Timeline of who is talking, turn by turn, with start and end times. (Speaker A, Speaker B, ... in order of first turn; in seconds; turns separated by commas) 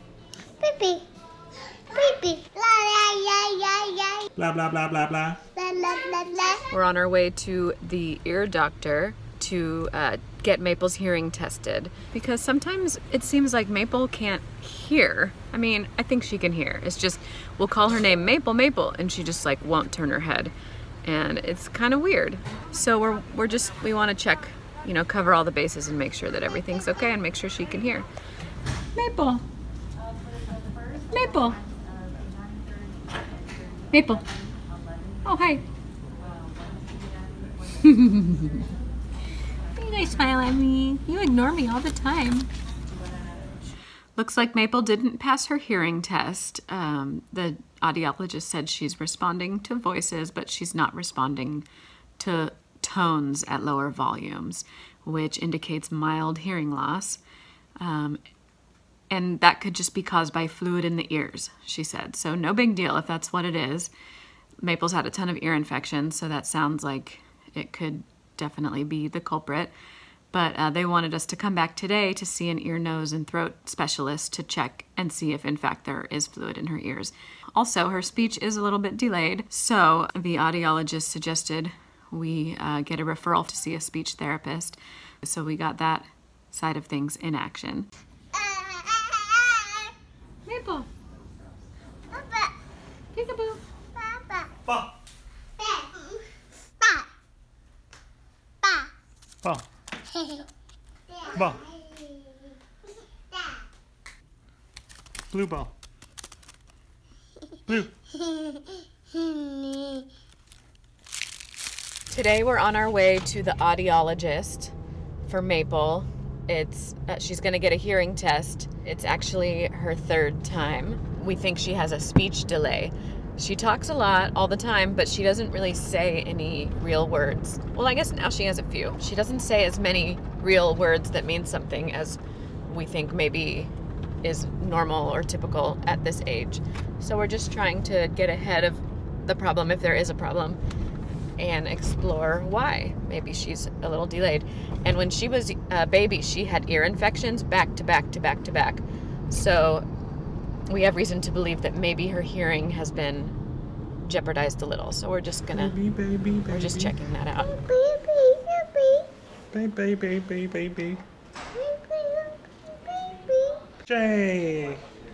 Speaker A: 0.6-1.0, Speaker A: 1.9-4.2, Speaker B: 4.3-5.4, Speaker A: 5.5-6.7, Speaker C: 6.7-20.5, Speaker C: 21.0-28.1, Speaker C: 28.9-29.4, Speaker C: 31.1-31.6, Speaker C: 33.9-34.2, Speaker C: 35.2-35.6, Speaker C: 37.8-38.6, Speaker C: 39.7-42.5, Speaker C: 44.1-51.6, Speaker C: 52.2-57.2, Speaker C: 57.8-58.2, Speaker C: 59.1-63.9, Speaker C: 64.6-69.7, Speaker C: 70.3-87.9, Speaker A: 88.3-89.9, Speaker C: 90.5-90.9, Speaker A: 92.1-92.5, Speaker C: 93.1-93.6, Speaker A: 93.9-94.5, Speaker A: 95.6-96.1, Speaker A: 98.6-98.9, Speaker A: 101.1-102.2, Speaker B: 101.3-101.6, Speaker B: 105.3-105.7, Speaker B: 107.7-107.9, Speaker A: 109.3-109.8, Speaker C: 112.1-114.7, Speaker C: 115.2-140.6, Speaker C: 141.4-149.8, Speaker C: 150.7-153.3, Speaker C: 154.0-155.7, Speaker B: 155.5-156.9, Speaker C: 156.5-157.5, Speaker A: 157.4-159.1, Speaker B: 159.5-161.0, Speaker A: 161.5-163.6, Speaker B: 163.8-164.8